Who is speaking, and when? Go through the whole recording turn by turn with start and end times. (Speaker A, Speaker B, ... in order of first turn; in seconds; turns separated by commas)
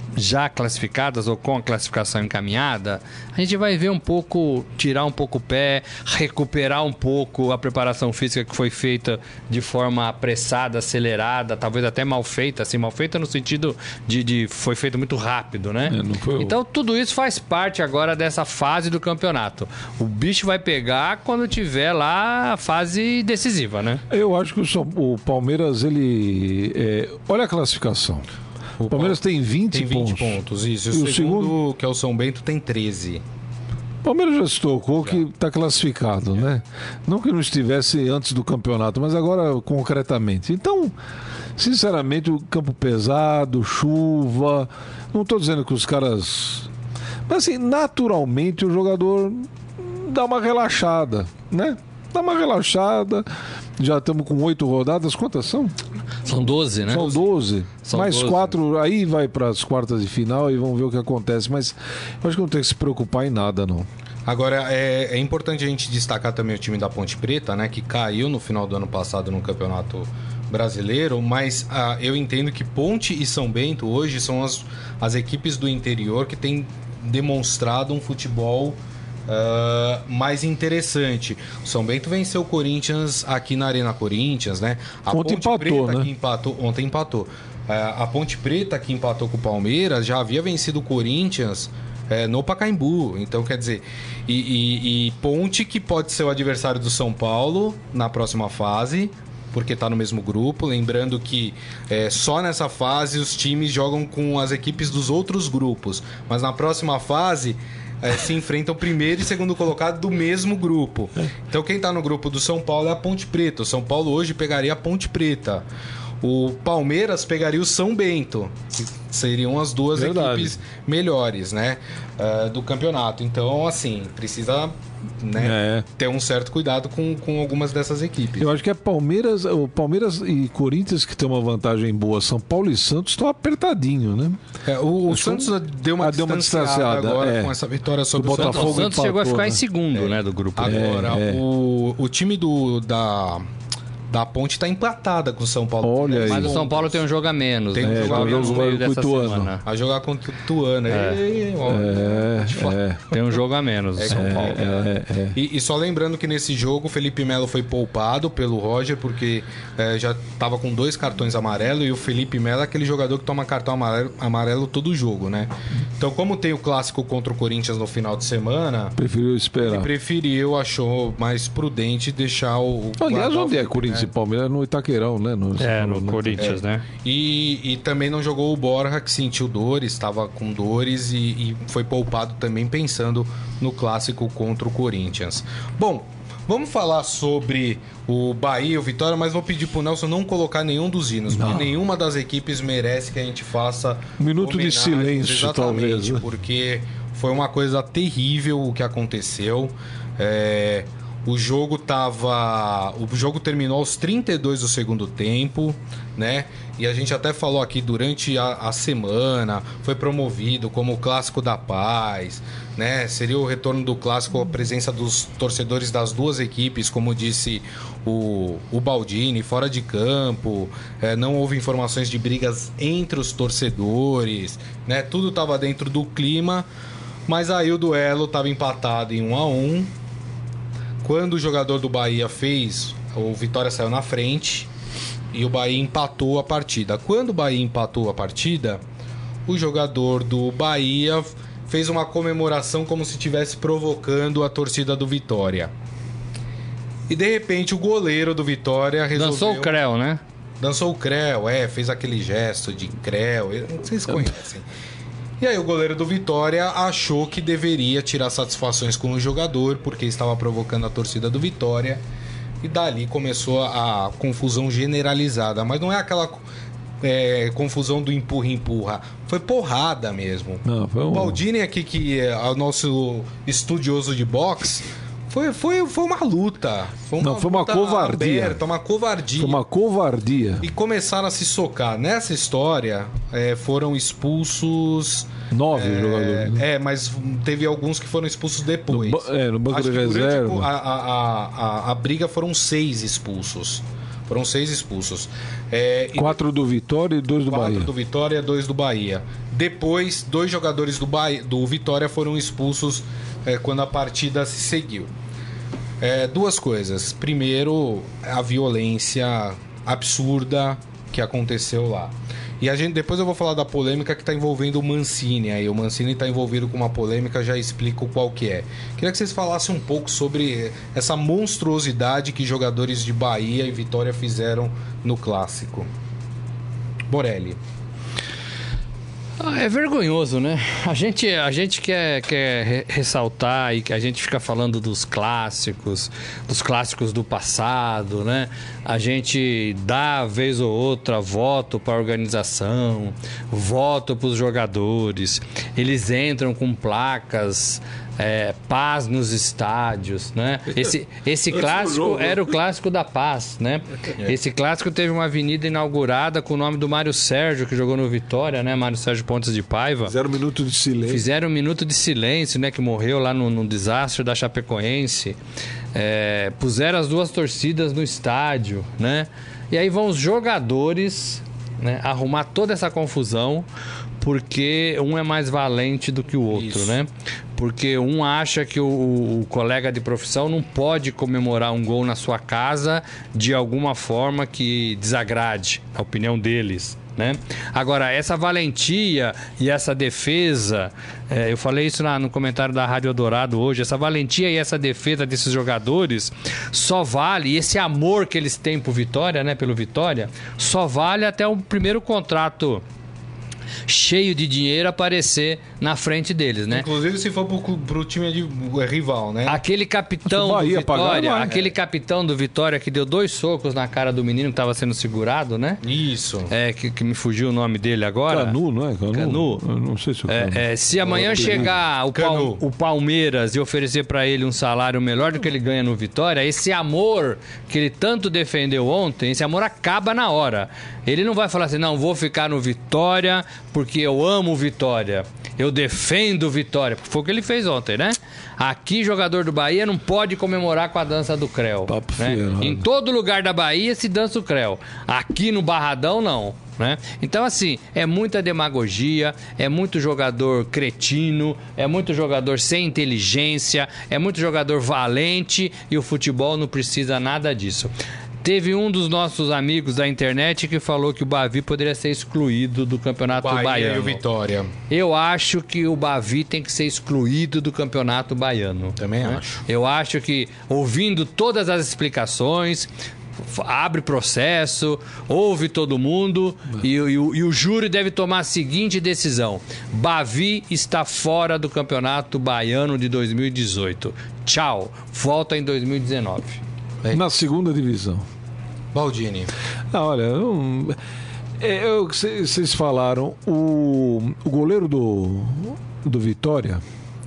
Speaker A: 0.1-24.0, Speaker B: 15.9-16.6, Speaker B: 24.1-28.3, Speaker C: 28.8-29.2, Speaker B: 28.9-30.4, Speaker C: 29.7-33.2, Speaker B: 30.9-31.6, Speaker B: 34.0-40.9, Speaker B: 41.6-46.7, Speaker B: 47.3-53.2, Speaker B: 53.8-55.7, Speaker A: 56.2-57.2, Speaker B: 56.9-63.9, Speaker A: 57.9-58.5, Speaker C: 64.3-115.7, Speaker B: 85.1-86.1, Speaker C: 116.2-128.6, Speaker B: 120.0-120.5, Speaker B: 125.4-125.9, Speaker B: 128.4-134.4, Speaker C: 134.7-139.0, Speaker B: 135.1-137.6, Speaker B: 138.1-139.6, Speaker A: 138.4-140.9, Speaker C: 139.9-143.5, Speaker B: 140.6-141.4, Speaker C: 144.1-147.0, Speaker B: 145.8-146.6, Speaker A: 146.2-149.7, Speaker C: 147.7-148.7, Speaker B: 147.8-149.5, Speaker C: 149.7-153.4, Speaker A: 150.9-151.2, Speaker B: 151.7-153.1, Speaker A: 153.1-154.6, Speaker C: 154.0-168.9, Speaker B: 154.1-155.4, Speaker B: 169.0-169.9, Speaker C: 169.6-174.1, Speaker B: 173.0-176.5, Speaker A: 175.6-176.8, Speaker C: 176.4-226.7, Speaker B: 191.3-191.8, Speaker B: 194.2-196.2, Speaker C: 227.3-229.9, Speaker C: 231.0-234.7, Speaker C: 235.3-238.8, Speaker C: 239.5-245.7, Speaker C: 247.1-249.8, Speaker A: 249.2-250.2, Speaker C: 250.6-254.7, Speaker C: 255.4-262.0, Speaker C: 262.6-266.4, Speaker C: 267.0-279.6, Speaker B: 270.6-271.4, Speaker B: 277.2-278.6, Speaker B: 279.4-280.7, Speaker C: 280.6-296.4, Speaker B: 285.5-286.6, Speaker B: 288.9-290.7, Speaker B: 296.1-297.9, Speaker C: 297.5-305.1, Speaker C: 306.0-325.9, Speaker C: 327.1-327.6, Speaker A: 329.4-360.1, Speaker B: 351.5-352.6, Speaker B: 360.0-361.2, Speaker A: 361.1-365.4, Speaker A: 365.9-373.7, Speaker A: 374.2-402.8, Speaker C: 376.5-377.0, Speaker A: 403.9-406.9, Speaker C: 406.7-409.6, Speaker A: 409.5-415.8, Speaker B: 410.3-411.6, Speaker C: 415.8-416.5, Speaker A: 416.5-418.6, Speaker B: 418.3-421.8, Speaker A: 419.1-419.6, Speaker A: 420.3-464.2, Speaker C: 421.1-422.6, Speaker B: 441.9-442.9, Speaker C: 463.3-464.7, Speaker A: 464.9-472.9, Speaker C: 469.0-469.6, Speaker A: 473.4-486.6, Speaker B: 487.1-488.2, Speaker C: 488.9-489.5, Speaker B: 489.9-491.0, Speaker B: 491.6-496.8